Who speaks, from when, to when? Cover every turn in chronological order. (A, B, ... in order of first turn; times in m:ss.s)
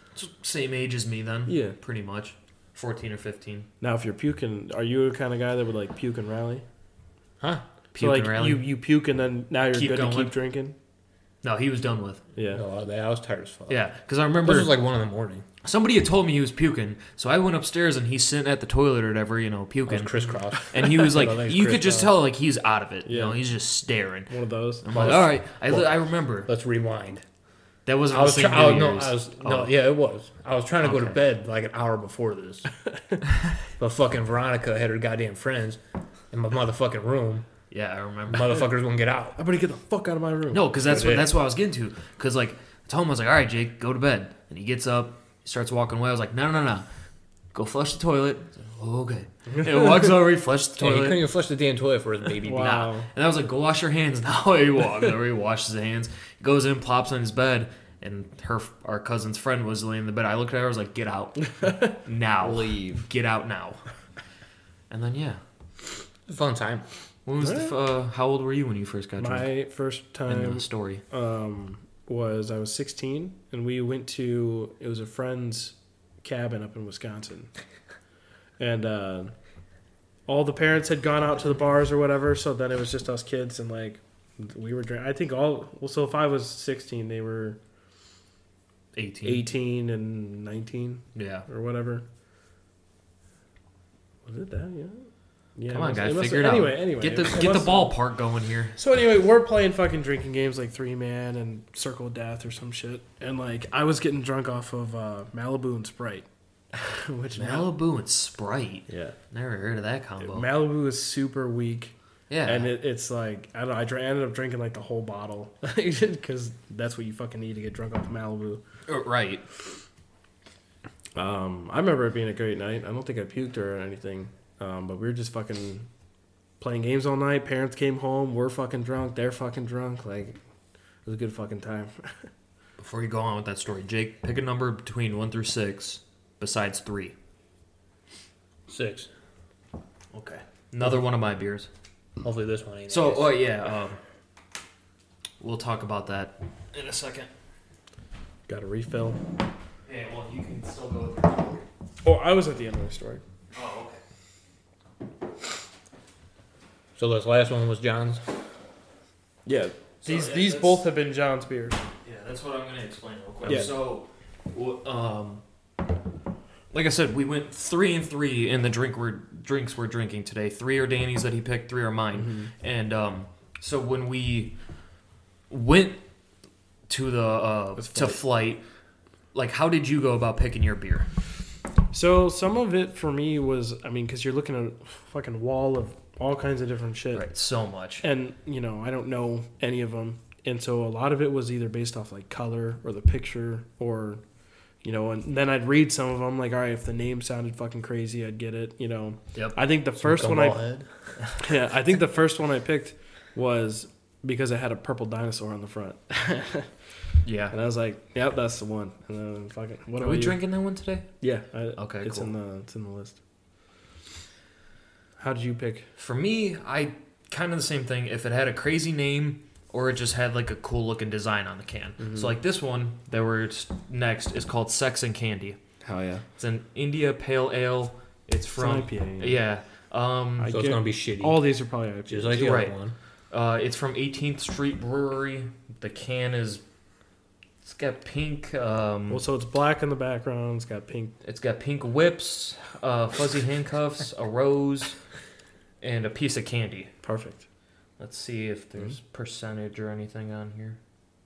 0:00.2-0:03.7 A
0:01.5-0:01.8 B
0:03.8-0:06.6 B
0:07.4-0:07.6 C
0:07.9-0:08.6 A
0:08.0-0:10.8 B
0:09.7-0:10.3 A
0:11.4-0:12.2 A
0:12.4-0:12.6 B
0:12.5-0:13.8 C
0:13.7-0:14.8 A
0:14.4-0:15.4 C
0:15.6-0:26.5 A
0:19.9-0:22.1 C
0:23.0-0:23.4 B
0:24.3-0:25.3 B
0:24.9-0:27.2 C
0:27.9-0:29.8 A
0:28.1-0:32.7 C
0:30.8-0:31.2 A
0:33.8-0:35.8 C
0:36.3-0:37.5 C
0:37.7-0:38.6 A
0:38.3-0:39.4 C
0:39.4-0:40.7 B
0:40.5-0:46.9 A
0:40.8-0:41.3 C
0:47.5-0:51.2 A
0:49.6-0:50.1 B
0:50.8-0:52.9 C
0:52.4-0:53.1 B
0:52.5-1:03.8 A
1:02.4-1:03.0 C
1:04.9-1:05.4 A
1:06.3-1:06.8 C
1:07.3-1:09.5 A
1:07.4-1:07.7 B
1:09.2-1:17.5 B
1:10.3-1:11.0 A
1:18.6-1:19.3 B
1:20.3-1:27.6 B
1:28.9-1:29.4 A
1:29.2-1:32.0 B
1:31.2-1:31.5 A
1:34.2-1:37.9 B
1:35.7-1:38.8 A
1:38.8-1:47.7 B
1:47.4-1:50.5 A
1:48.9-1:49.2 B
1:50.2-1:58.6 B
1:52.3-1:52.7 A
1:58.9-1:59.4 A
2:01.2-2:05.9 B
2:06.6-2:10.4 B
2:11.0-2:12.3 B
2:12.8-2:17.2 A
2:18.7-2:19.1 C
2:20.1-2:21.7 A
2:22.2-2:23.4 C
2:22.9-2:24.0 A
2:25.4-2:27.3 A
2:28.5-2:29.2 B
2:29.9-2:31.7 A
2:32.0-2:33.2 B
2:33.5-2:34.0 A
2:37.0-2:38.2 C
2:39.4-2:41.9 B
2:40.0-2:40.9 A
2:42.0-2:45.4 A
2:43.4-2:43.7 B
2:46.7-2:54.6 A
2:52.2-2:52.5 B
2:55.5-2:56.0 A
2:56.9-2:58.6 A
2:57.8-2:58.2 B
2:59.3-3:01.1 A
3:01.9-3:07.3 B
3:07.1-3:08.0 A
3:08.0-3:14.2 B
3:14.8-3:20.6 B
3:19.3-3:19.6 A
3:20.0-3:20.9 C
3:21.4-3:26.7 B
3:27.2-3:27.6 A
3:27.5-3:30.4 B
3:30.0-3:31.1 A
3:31.2-3:33.2 B
3:31.8-3:32.3 A
3:35.2-3:35.9 B
3:36.0-3:45.6 A
3:42.0-3:42.3 B
3:45.8-3:46.2 B
3:46.4-3:50.5 A
3:48.6-3:49.4 B
3:50.4-3:52.6 B
3:50.4-3:51.4 C
3:52.1-3:53.0 C
3:52.4-3:52.8 A
3:53.3-3:56.6 A
3:57.6-3:59.2 A
3:59.1-4:01.2 B
4:01.2-4:05.0 A
4:05.8-4:06.9 A
4:07.0-4:07.4 B
4:08.0-4:10.8 A